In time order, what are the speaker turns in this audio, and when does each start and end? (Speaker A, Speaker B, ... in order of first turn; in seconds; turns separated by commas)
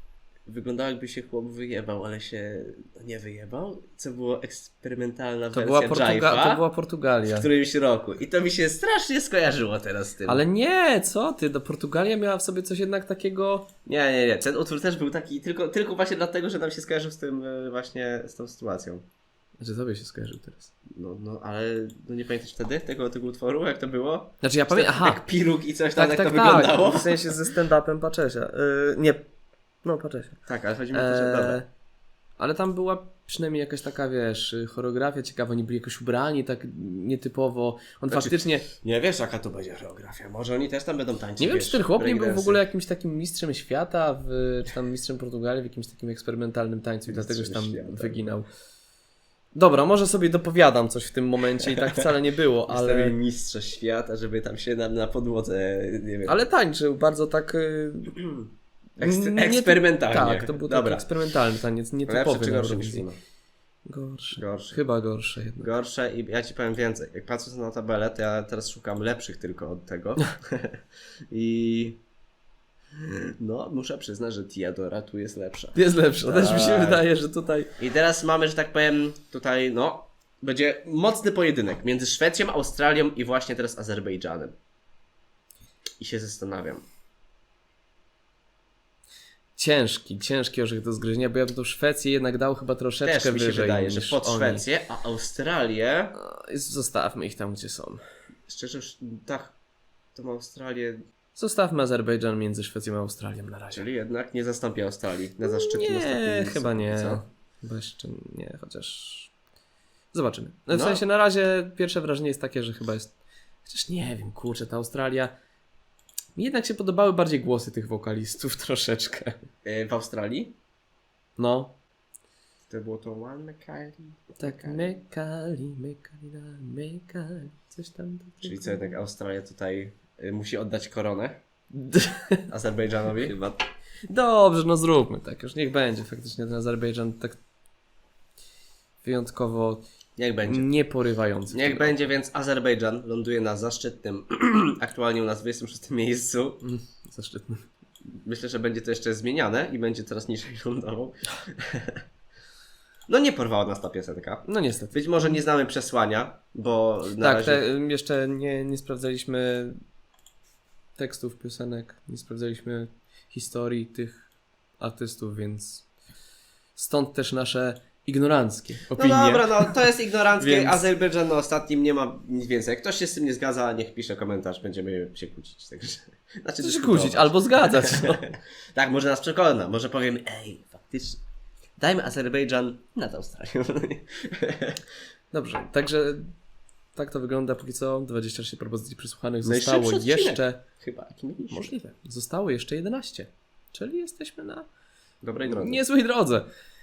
Speaker A: 0.5-6.6, Speaker B: 5.5-7.5, Speaker A: 7.3-10.4, Speaker B: 10.3-13.7, Speaker A: 13.9-19.0, Speaker B: 19.6-20.7, Speaker A: 20.9-27.5, Speaker B: 24.4-25.2, Speaker B: 25.9-29.3, Speaker B: 29.8-31.7, Speaker A: 30.5-31.6, Speaker B: 32.4-38.6, Speaker A: 38.1-42.6, Speaker B: 41.4-48.5, Speaker A: 47.1-48.2, Speaker B: 49.5-53.2, Speaker A: 52.7-56.4, Speaker B: 56.3-58.1, Speaker A: 59.0-61.1, Speaker B: 59.0-63.1, Speaker A: 62.1-63.2, Speaker B: 63.9-65.7, Speaker A: 64.3-64.8, Speaker A: 65.6-72.0, Speaker A: 73.4-77.0, Speaker B: 75.8-77.7, Speaker A: 77.8-84.5, Speaker A: 86.0-86.8, Speaker B: 89.6-94.6, Speaker A: 93.0-96.1, Speaker B: 96.2-98.0, Speaker A: 98.5-99.6, Speaker A: 100.2-101.0, Speaker B: 101.3-103.8, Speaker A: 103.7-107.2, Speaker B: 105.4-109.3, Speaker B: 110.1-115.3, Speaker A: 110.7-111.0, Speaker B: 116.4-119.3, Speaker A: 119.6-120.5, Speaker B: 121.4-121.8, Speaker A: 122.7-125.0, Speaker B: 124.4-128.9, Speaker A: 128.4-131.4, Speaker B: 131.7-132.4, Speaker A: 132.5-133.6, Speaker B: 134.1-137.4, Speaker B: 139.0-139.8, Speaker A: 140.2-140.7, Speaker B: 140.5-142.1, Speaker A: 141.5-146.6, Speaker B: 146.6-147.7, Speaker A: 148.1-152.0, Speaker A: 153.1-157.7, Speaker B: 154.5-155.0, Speaker B: 157.2-159.8, Speaker B: 161.0-165.9, Speaker B: 166.8-170.8, Speaker A: 168.9-181.2, Speaker B: 176.6-178.2, Speaker A: 181.8-184.8, Speaker B: 185.3-186.3, Speaker B: 186.9-190.6, Speaker A: 189.4-191.7, Speaker B: 191.5-194.7, Speaker A: 195.2-195.8, Speaker B: 195.4-196.5